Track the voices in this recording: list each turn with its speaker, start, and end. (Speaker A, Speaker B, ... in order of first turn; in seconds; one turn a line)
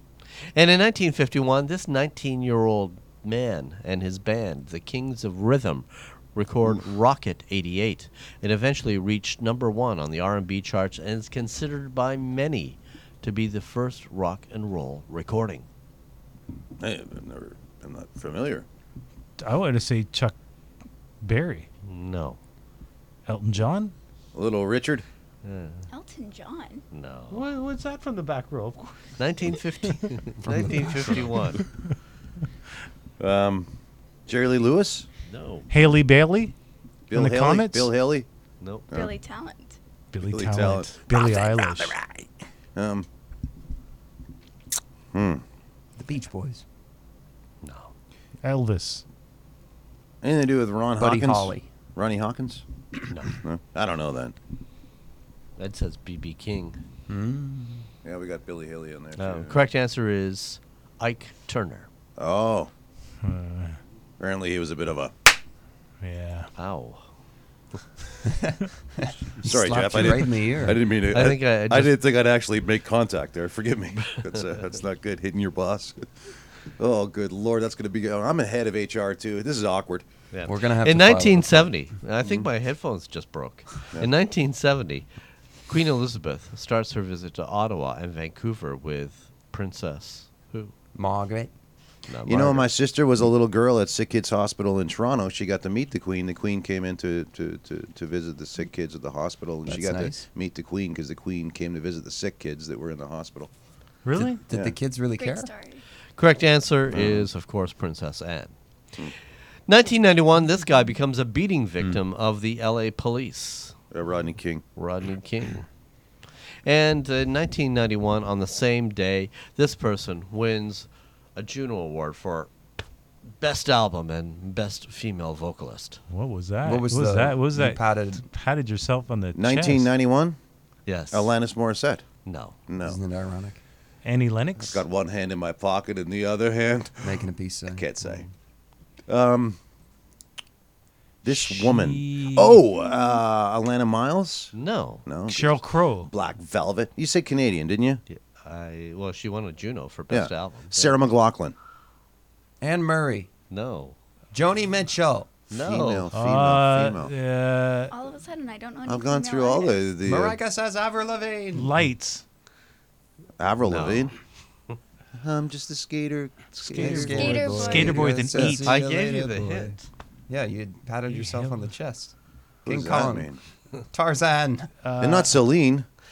Speaker A: 0.4-15.7
Speaker B: 16.8-18.7
Speaker C: 19.4-20.4
Speaker C: 21.2-21.7
Speaker A: 21.8-22.4
Speaker C: 23.3-23.9
Speaker B: 24.3-25.1
Speaker A: 25.4-25.9
Speaker D: 25.9-26.8
Speaker A: 26.9-27.5
Speaker C: 27.3-29.2
Speaker A: 29.2-31.6
Speaker E: 30.5-31.3
Speaker B: 33.2-33.7
Speaker B: 34.3-35.1
Speaker A: 35.3-35.7
Speaker C: 35.7-36.5
Speaker B: 37.1-38.3
Speaker C: 37.1-37.9
Speaker A: 38.6-38.9
Speaker B: 38.9-39.2
Speaker D: 38.9-39.8
Speaker C: 40.1-42.0
Speaker B: 40.2-40.9
Speaker D: 41.1-42.0
Speaker B: 42.8-43.1
Speaker B: 45.1-45.4
Speaker E: 46.0-46.6
Speaker A: 47.6-47.9
Speaker C: 48.4-49.0
Speaker B: 50.2-52.6
Speaker E: 51.0-51.7
Speaker A: 53.1-53.3
Speaker B: 53.3-54.4
Speaker A: 55.6-56.8
Speaker E: 57.1-57.9
Speaker B: 58.0-59.6
Speaker A: 59.2-61.9
Speaker B: 62.2-62.7
Speaker C: 63.2-63.8
Speaker B: 64.2-65.1
Speaker C: 66.0-66.5
Speaker A: 66.6-67.1
Speaker E: 68.2-70.8
Speaker B: 69.4-76.1
Speaker A: 71.0-72.0
Speaker B: 76.8-80.0
Speaker A: 80.3-85.1
Speaker E: 80.5-81.7
Speaker A: 85.7-90.7
Speaker E: 91.0-91.5
Speaker A: 92.1-92.7
Speaker B: 92.3-103.5
Speaker E: 99.7-100.2
Speaker C: 104.0-104.4
Speaker E: 104.2-105.5
Speaker B: 104.5-104.8
Speaker D: 105.2-105.8
Speaker A: 106.2-108.5
Speaker B: 106.9-107.3
Speaker A: 109.7-113.8
Speaker B: 113.9-114.6
Speaker A: 114.8-115.7
Speaker A: 116.6-122.5
Speaker A: 123.4-126.0
Speaker C: 126.1-129.9
Speaker E: 126.6-128.3
Speaker B: 129.3-130.4
Speaker A: 130.9-131.3
Speaker B: 131.1-132.1
Speaker A: 132.2-132.6
Speaker B: 132.7-133.0
Speaker E: 132.8-133.6
Speaker C: 134.0-134.8
Speaker B: 134.6-138.3
Speaker E: 137.0-138.2
Speaker B: 139.1-139.6
Speaker C: 141.2-142.6
Speaker B: 141.2-144.5
Speaker A: 144.5-145.1
Speaker B: 145.1-145.6
Speaker C: 145.3-146.1
Speaker B: 146.1-148.0
Speaker A: 148.1-151.0
Speaker B: 150.1-151.6
Speaker E: 152.6-153.3
Speaker A: 153.5-154.0
Speaker E: 154.3-155.3
Speaker A: 155.5-156.1
Speaker B: 155.6-157.1
Speaker C: 156.1-157.9
Speaker D: 157.9-159.9
Speaker B: 158.8-160.4
Speaker E: 160.0-161.7
Speaker C: 161.5-162.2
Speaker B: 163.4-164.1
Speaker A: 163.7-164.1
Speaker B: 165.1-167.8
Speaker C: 166.5-168.8
Speaker E: 166.7-169.8
Speaker D: 167.0-168.1
Speaker A: 168.3-169.9
Speaker E: 170.3-172.1
Speaker C: 171.1-171.6
Speaker E: 172.7-173.3
Speaker B: 172.7-173.4
Speaker E: 173.9-174.7
Speaker C: 174.8-175.4
Speaker B: 175.0-175.8